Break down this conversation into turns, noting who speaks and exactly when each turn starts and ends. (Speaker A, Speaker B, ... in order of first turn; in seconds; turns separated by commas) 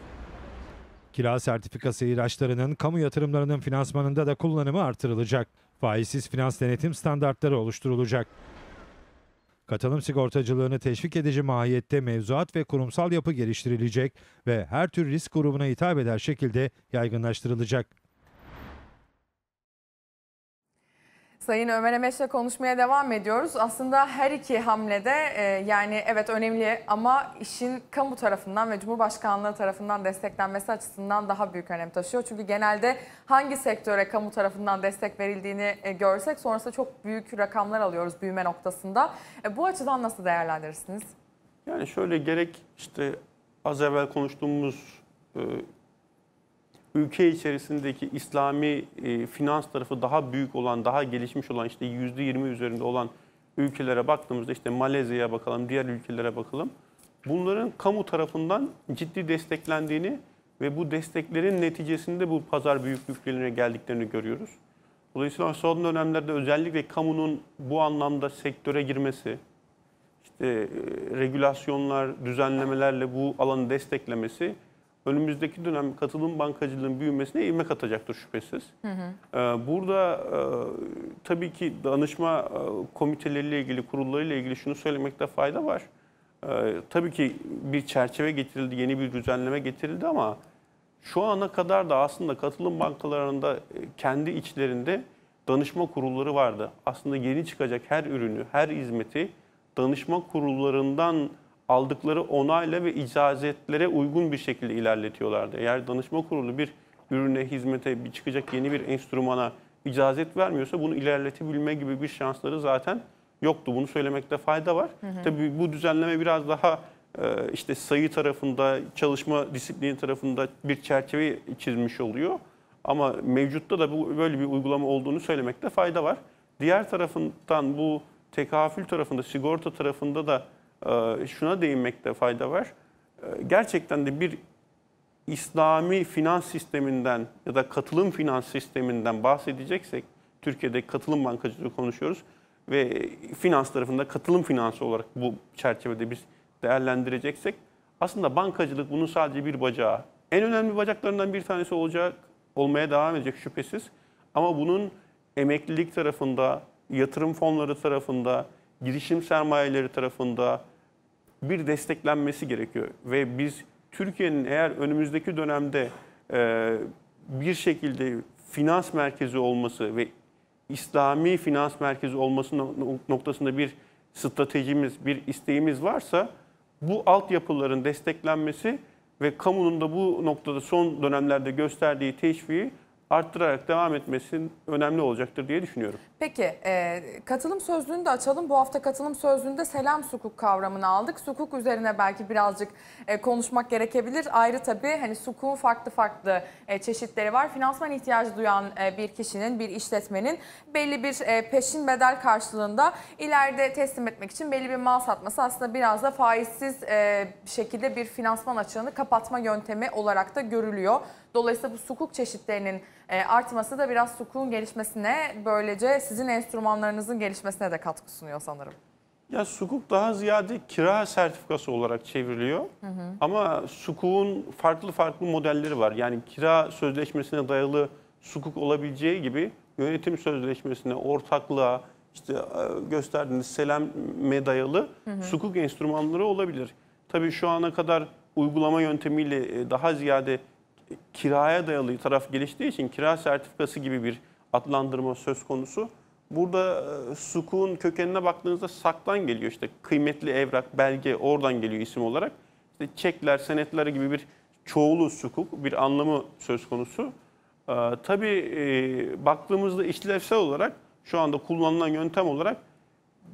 Speaker A: 1.1-8.3, Speaker A: 9.7-17.9, Speaker B: 21.4-41.1, Speaker C: 41.7-45.7, Speaker C: 46.9-56.7, Speaker C: 57.2-64.6, Speaker C: 65.1-69.4, Speaker C: 70.2-78.7, Speaker B: 78.8-79.2, Speaker C: 79.3-85.9, Speaker C: 86.4-90.4, Speaker C: 91.0-134.4, Speaker B: 115.0-115.3, Speaker C: 135.3-160.6, Speaker C: 161.4-170.1, Speaker C: 170.7-176.3, Speaker C: 176.8-186.0, Speaker B: 186.2-218.8, Speaker C: 219.3-240.4, Speaker B: 222.8-223.2, Speaker B: 235.1-235.3, Speaker C: 241.1-257.1, Speaker C: 257.7-262.6